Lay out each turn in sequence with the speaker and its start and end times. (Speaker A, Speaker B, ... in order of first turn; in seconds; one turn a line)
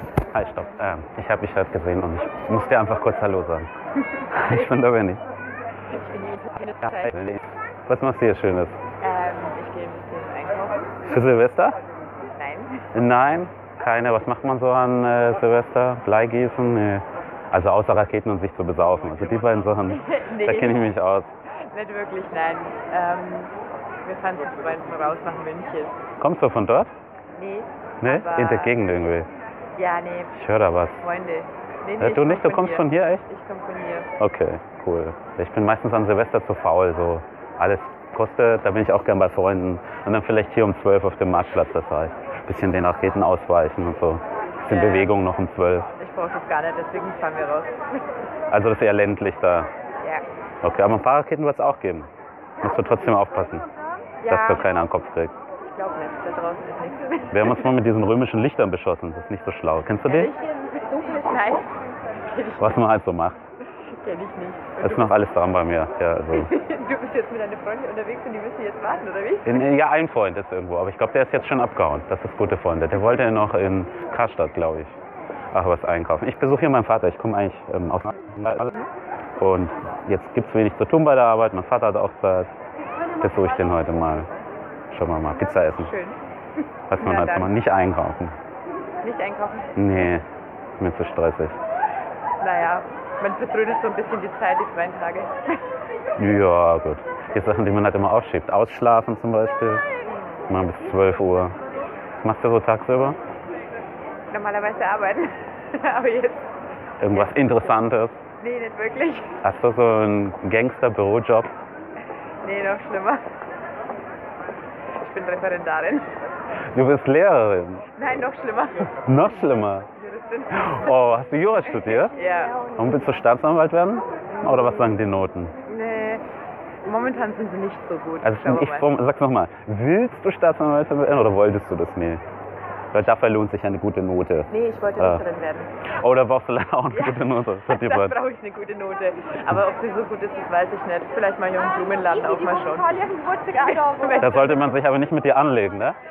Speaker A: 0.3-3.7
Speaker B: 4.1-4.8
Speaker A: 4.3-5.2
Speaker B: 5.9-7.1
Speaker A: 6.8-8.8
Speaker B: 9.0-10.9
Speaker A: 11.1-11.8
Speaker B: 12.3-12.8
Speaker A: 12.9-21.3
Speaker B: 19.9-20.9
Speaker B: 21.7-23.5
Speaker B: 24.1-25.9
Speaker A: 26.2-26.9
Speaker B: 27.3-28.8
Speaker A: 28.0-29.3
Speaker B: 29.8-30.3
Speaker A: 30.4-31.1
Speaker B: 31.0-34.1
Speaker A: 32.0-33.2
Speaker A: 34.2-45.9
Speaker B: 44.7-45.1
Speaker B: 46.0-47.8
Speaker A: 48.5-49.7
Speaker A: 50.6-52.1
Speaker A: 52.6-53.7
Speaker B: 54.2-54.7
Speaker A: 54.3-55.4
Speaker B: 55.6-57.7
Speaker A: 57.3-60.3
Speaker B: 60.0-61.7
Speaker B: 62.3-62.9
Speaker A: 62.6-63.4
Speaker B: 63.9-65.2
Speaker A: 64.8-66.5
Speaker B: 66.3-69.6
Speaker A: 69.5-75.0
Speaker A: 75.5-78.7
Speaker A: 79.4-82.5
Speaker A: 83.2-84.3
Speaker A: 84.9-85.9
Speaker B: 85.5-86.2
Speaker A: 86.9-88.4
Speaker B: 87.0-87.6
Speaker B: 89.0-89.7
Speaker A: 89.8-90.3
Speaker A: 90.8-91.6
Speaker B: 92.4-95.3
Speaker A: 96.2-99.8
Speaker B: 100.0-100.6
Speaker A: 100.5-101.6
Speaker A: 102.2-103.2
Speaker B: 104.3-106.5
Speaker A: 107.0-108.2
Speaker B: 107.1-107.8
Speaker B: 108.4-109.4
Speaker A: 109.4-111.5
Speaker B: 112.4-113.2
Speaker B: 115.0-116.1
Speaker A: 116.7-117.8
Speaker B: 118.0-119.0
Speaker A: 119.0-119.9
Speaker B: 120.0-121.0
Speaker A: 120.5-122.1
Speaker B: 121.9-122.7
Speaker A: 122.8-125.5
Speaker B: 124.3-125.0
Speaker B: 125.7-126.2
Speaker B: 126.8-128.9
Speaker A: 128.2-132.2
Speaker A: 132.9-135.2
Speaker B: 134.5-135.7
Speaker A: 135.9-138.2
Speaker B: 136.9-144.7
Speaker A: 144.2-146.0